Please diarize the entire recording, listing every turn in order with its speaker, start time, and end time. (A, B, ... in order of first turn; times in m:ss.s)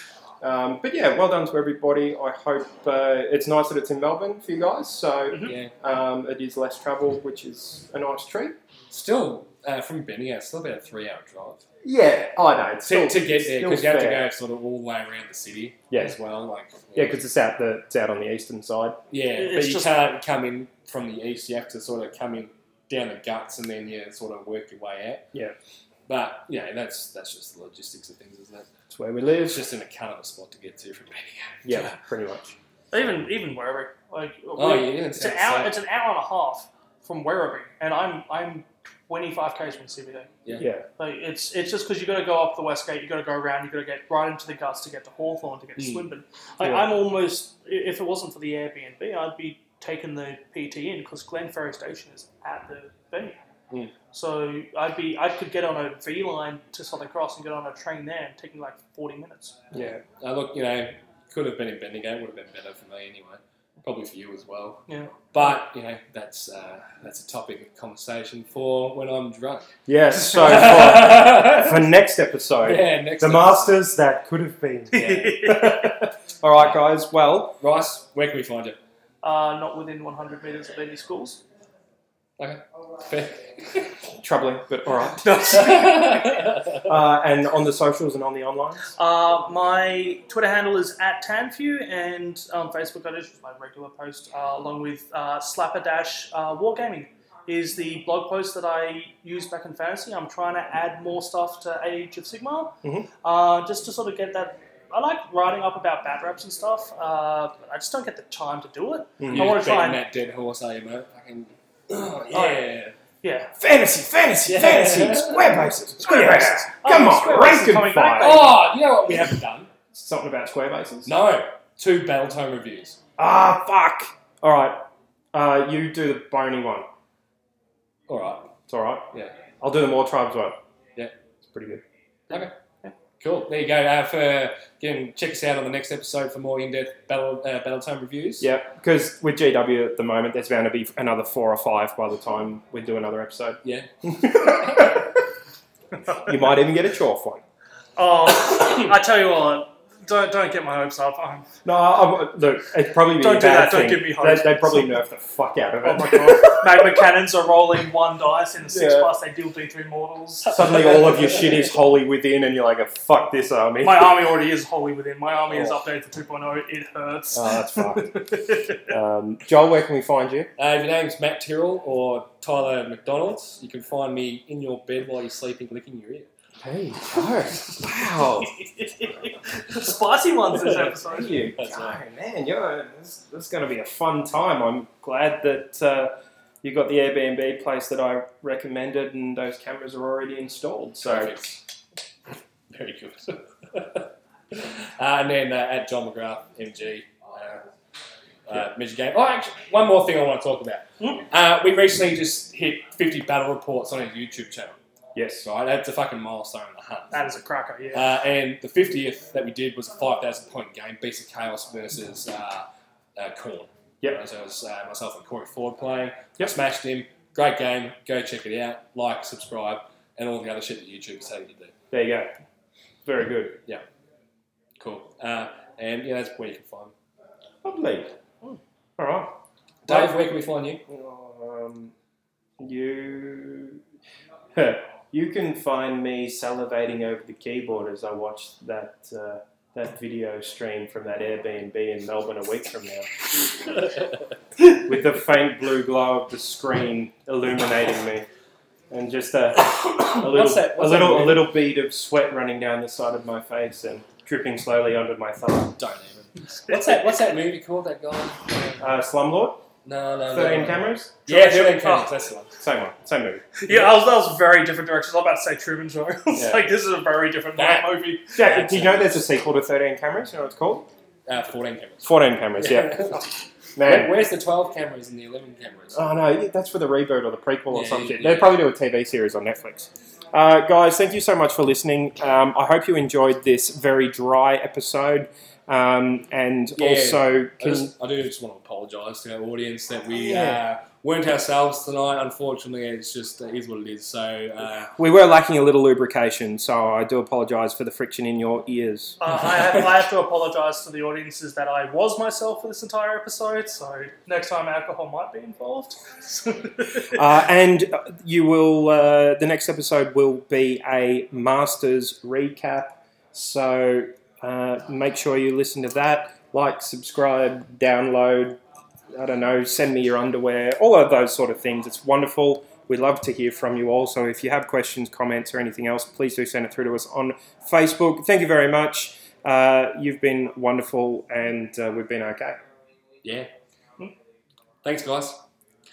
0:00.4-0:08.6 A
0:05.3-0:05.6 B
0:05.4-0:05.7 C
0:08.9-0:11.6 C
0:11.8-0:14.2 A
0:12.8-0:17.2 C
0:15.9-0:16.2 A
0:16.9-0:19.0 A
0:19.1-0:25.3 C
0:19.3-0:20.0 B
0:26.1-0:28.7 C
0:28.9-0:29.6 A
0:29.4-0:31.7 C
0:31.6-0:32.6 A
0:32.9-0:40.3 B
0:34.6-0:35.8 C
0:40.6-0:40.8 A
0:41.0-0:53.4 B
0:45.8-0:46.0 C
0:46.6-0:46.9 A
0:54.1-0:59.6 B
0:59.7-1:00.0 A
0:59.8-1:11.8 C
1:04.9-1:05.1 B
1:09.9-1:17.6 A
1:12.6-1:13.8 C
1:14.9-1:16.0 B
1:14.9-1:15.4 C
1:16.6-1:16.9 C
1:17.6-1:18.8 C
1:19.2-1:21.4 B
1:22.4-1:23.9 C
1:24.2-1:25.7 A
1:25.2-1:26.4 B
1:25.6-1:26.8 C
1:26.8-1:28.9 A
1:29.0-1:50.0 B
1:49.2-1:49.6 A
1:49.3-1:53.0 C
1:52.3-1:52.6 B
1:53.2-1:53.5 B
1:53.6-1:58.4 A
1:54.4-1:55.5 C
1:56.0-1:58.6 B
1:58.2-1:59.7 C
1:59.9-2:01.1 A
2:01.0-2:03.0 C
2:03.2-2:06.8 A
2:08.1-2:08.5 C
2:08.7-2:10.6 A
2:11.5-2:11.8 A
2:13.2-2:18.5 C
2:18.4-2:25.2 A
2:23.6-2:25.0 C
2:26.2-2:27.4 A
2:28.0-2:31.5 B
2:31.6-2:37.0 A
2:33.1-2:34.9 B
2:35.8-2:41.2 B
2:38.7-2:39.1 A
2:40.5-2:44.2 A
2:43.8-2:48.8 B
2:47.3-2:48.2 A
2:48.7-2:50.5 A
2:50.6-2:56.3 C
2:56.6-2:58.5 A
2:58.4-3:01.5 B
3:01.1-3:11.4 A
3:01.5-3:02.0 C
3:11.0-3:11.6 C
3:12.7-3:17.6 C
3:18.4-3:24.8 C
3:25.1-3:25.4 A
3:25.4-3:27.3 C
3:27.1-3:28.1 B
3:27.9-3:41.7 C
3:41.9-3:42.3 A
3:43.0-3:43.6 A
3:44.8-3:46.9 C
3:47.6-3:48.2 A
3:49.0-3:50.1 A
3:49.8-3:50.8 C
3:50.8-3:51.9 A
3:52.6-3:53.8 A
3:54.5-4:03.5 A
4:04.6-4:08.3 A
4:08.9-4:15.7 A
4:10.0-4:11.6 C
4:15.8-4:18.9 C
4:18.8-4:19.6 A
4:19.8-4:22.5 C
4:20.3-4:21.5 A
4:21.3-4:22.1 B
4:22.6-4:23.4 A
4:23.6-4:28.4 B
4:23.7-4:23.9 C
4:26.3-4:26.6 A
4:27.6-4:29.3 C
4:28.3-4:30.9 A
4:31.2-4:36.0 C
4:32.0-4:33.2 A
4:33.8-4:34.1 A
4:35.9-4:47.9 A
4:37.7-4:38.5 C
4:46.8-4:54.9 C
4:50.1-4:50.6 A
4:55.0-4:59.2 A
4:59.2-5:07.2 B
5:07.1-5:18.6 A
5:19.1-5:32.6 A
5:33.2-5:33.5 C
5:34.8-5:35.4 C